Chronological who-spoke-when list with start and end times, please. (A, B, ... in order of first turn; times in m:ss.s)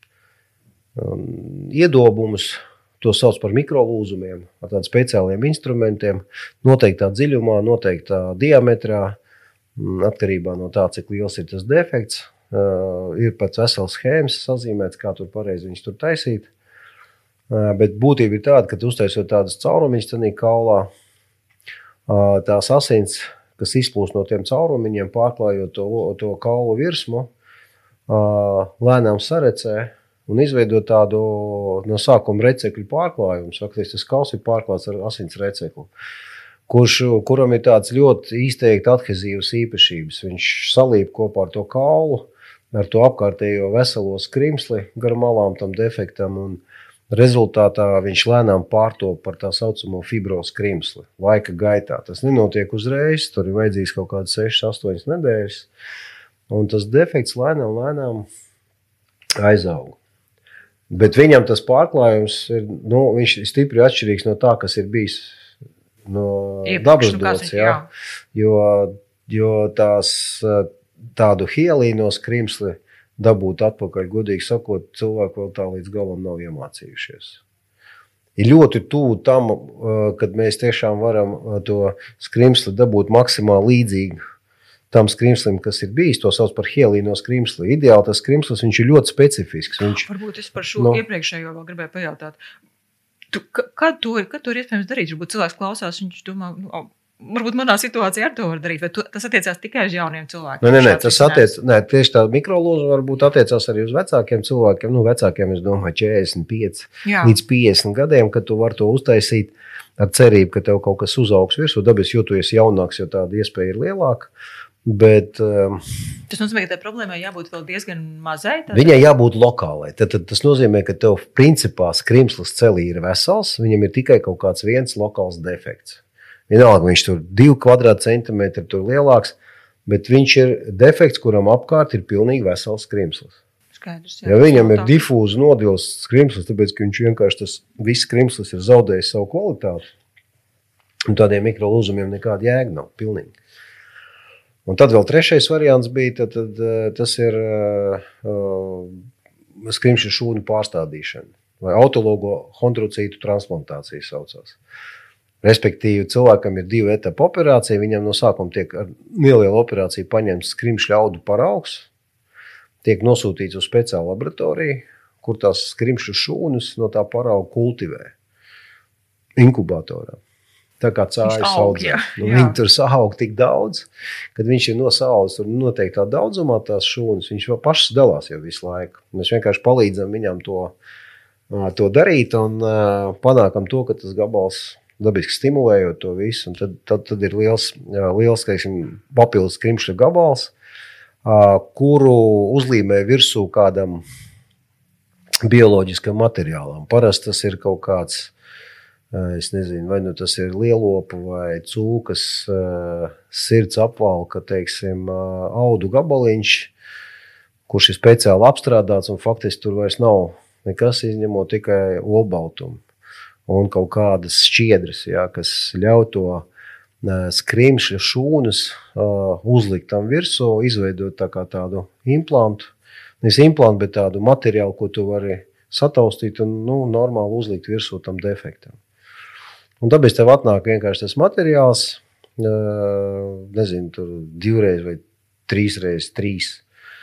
0:01.0-0:09.2 A
0:09.8-0:16.5 A
0:17.5-0:20.9 A
0:22.1-0:27.3 A
0:28.1-0:35.9 A
0:36.7-0:55.7 A
0:56.5-0:58.3 A
0:59.4-1:00.0 A
1:00.9-1:05.4 A
1:06.0-1:07.8 A
1:06.6-1:07.9 B
1:08.3-1:17.4 A
1:18.4-1:24.2 A
1:24.9-1:30.1 A
1:29.8-1:32.4 B
1:30.8-1:31.0 A
1:33.3-1:41.5 B
1:40.6-1:54.3 A
1:47.0-1:47.4 B
1:54.8-1:55.8 A
1:56.3-1:59.0 B
1:58.7-2:13.4 A
2:13.7-2:15.0 B
2:14.2-2:19.9 A
2:21.1-2:23.3 A
2:24.6-2:29.0 A
2:29.6-2:34.6 A
2:35.4-2:41.9 A
2:42.8-2:48.1 A
2:49.4-2:50.2 A
2:50.8-3:00.8 A
2:51.2-2:52.6 B
3:01.5-3:10.5 A
3:11.2-3:14.0 A
3:15.4-3:18.3 A
3:19.1-3:26.7 A
3:27.7-3:32.8 A
3:33.5-3:36.4 A
3:37.0-3:48.8 A
3:49.8-3:56.6 A